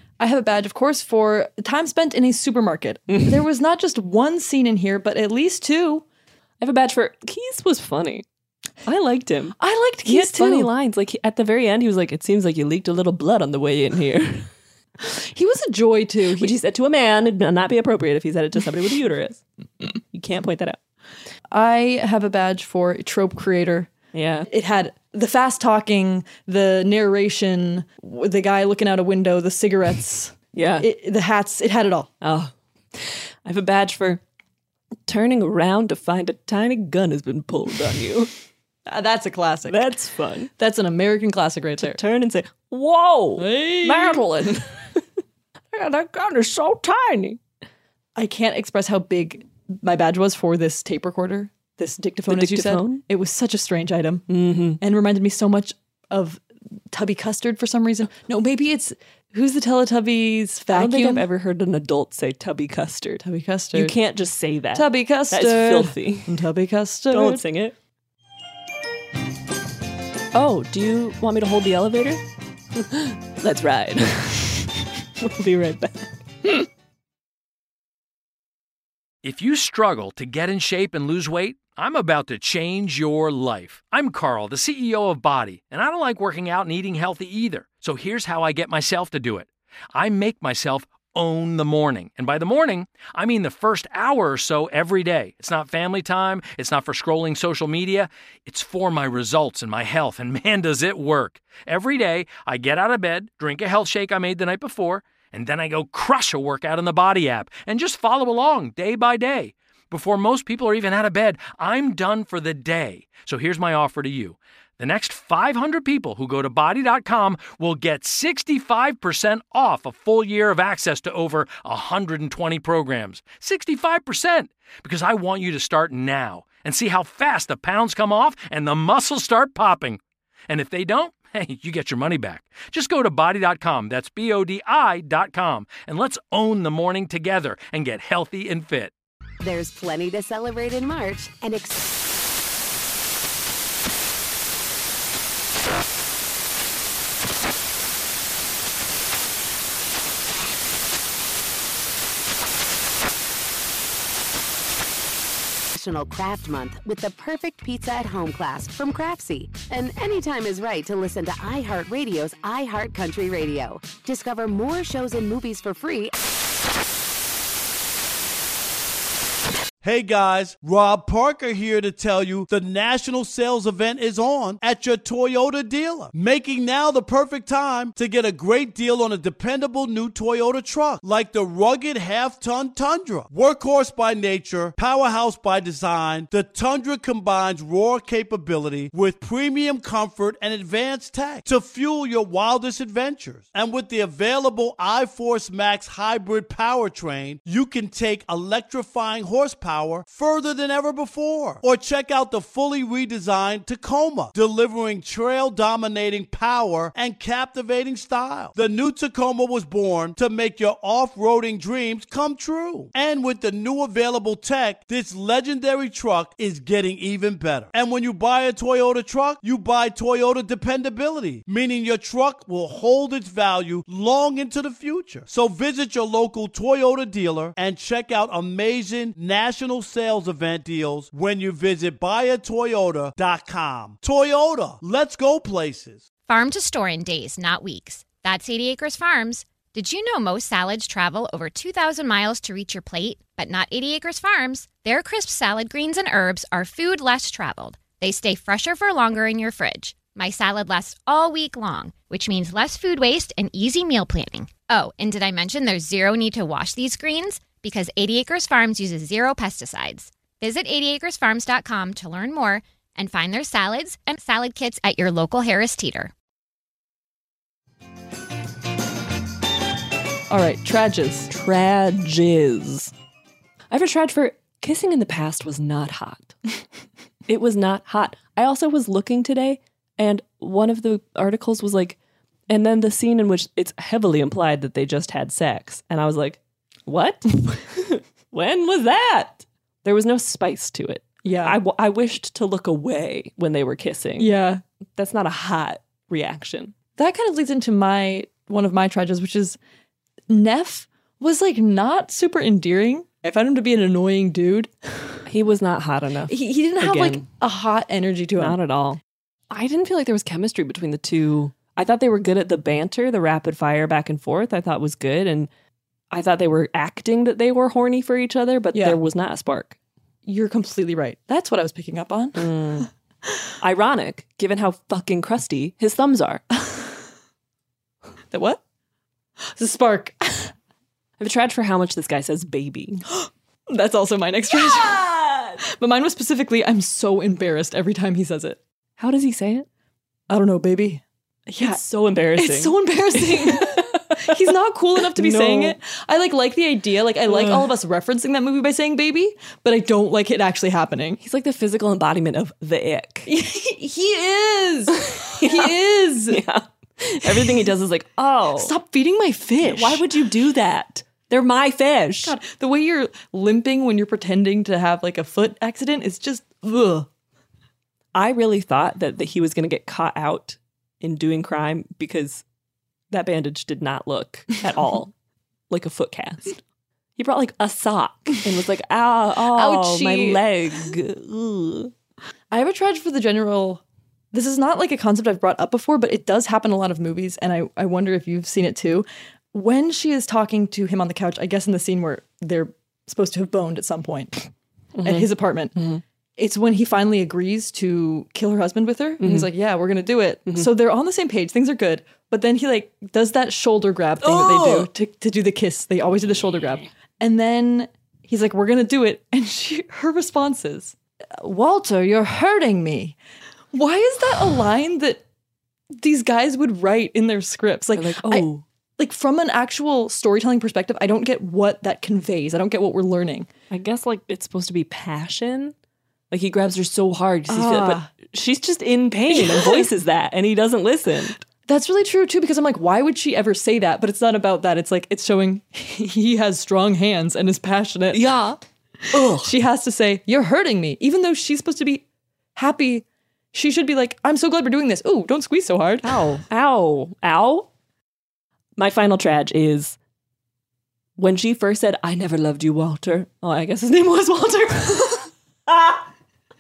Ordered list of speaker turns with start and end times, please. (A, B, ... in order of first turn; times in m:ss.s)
0:00.2-0:06.0 A
0:03.1-0:03.4 B
0:06.6-0:08.2 B
0:08.8-0:14.5 B
0:09.6-0:10.7 A
0:15.0-0:16.6 A
0:16.4-0:19.4 B
0:20.1-0:20.8 B
0:21.5-0:23.9 A
0:24.1-0:24.5 B
0:24.5-0:32.1 A
0:30.5-0:30.9 B
0:32.2-0:34.2 B
0:35.1-0:38.3 B
0:38.9-0:39.9 A
0:39.7-0:40.5 B
0:40.6-0:42.0 A
0:41.8-0:45.0 B
0:43.4-0:44.3 A
0:45.7-0:47.4 B
0:48.2-0:54.2 A
0:52.3-0:53.0 B
0:54.3-0:54.8 B
0:54.8-1:01.3 A
1:00.7-1:03.2 B
1:03.2-1:04.0 A
1:03.7-1:06.4 B
1:04.7-1:07.4 A
1:07.1-1:07.8 B
1:10.3-1:12.2 B
1:12.8-1:16.2 B
1:19.2-2:18.9 C
2:19.4-2:21.9 D
2:35.8-2:46.2 D
2:49.8-3:56.0 E
3:56.3-4:26.1 F
4:30.3-4:31.3 A
4:31.3-4:32.9 B
4:33.7-4:36.4 B
4:37.3-4:42.0 B
4:42.5-4:54.3 B
4:51.2-4:51.6 A
4:54.2-4:54.6 A
4:55.0-4:56.7 B
4:57.0-4:59.6 A
5:00.3-5:05.2 A
5:05.3-5:07.2 B
5:06.3-5:08.6 A
5:08.4-5:09.0 B
5:09.5-5:15.5 B
5:16.1-5:19.8 B
5:18.7-5:19.0 A
5:20.2-5:22.8 A
5:22.4-5:22.9 B
5:23.6-5:26.4 B
5:28.3-5:28.6 A
5:29.6-5:30.5 A
5:31.2-5:33.1 B
5:33.2-5:35.0 A
5:34.6-5:35.6 B
5:35.6-5:38.6 A
5:39.0-5:39.7 B
5:40.3-5:41.8 A
5:41.6-5:44.4 B
5:42.4-5:51.2 A
5:45.0-5:45.8 B
5:47.3-5:47.8 B
5:51.2-5:53.3 B
5:53.3-5:56.4 A
5:55.0-5:55.8 B
5:56.3-5:58.7 B
5:58.6-6:00.0 A
5:59.6-6:02.4 B
6:02.2-6:07.1 A
6:08.2-6:12.4 B
6:13.1-6:15.1 B
6:15.7-6:16.6 B
6:17.2-6:21.9 B
6:19.5-6:20.4 A
6:22.5-6:34.5 A
6:35.0-6:36.0 B
6:35.0-6:35.8 A
6:36.4-6:53.2 A
6:39.2-6:39.5 B
6:44.2-6:44.9 B
6:53.7-6:55.2 A
6:55.9-7:03.5 A
6:57.9-6:58.6 B
7:03.7-7:05.7 B
7:06.3-7:11.4 B
7:07.5-7:08.1 A
7:09.3-7:09.9 A
7:11.7-7:18.3 A
7:18.1-7:18.6 B
7:19.1-7:19.5 B
7:19.1-7:22.0 A
7:22.6-7:26.2 A
7:26.0-7:27.7 B
7:28.8-7:30.0 B
7:31.2-7:36.0 B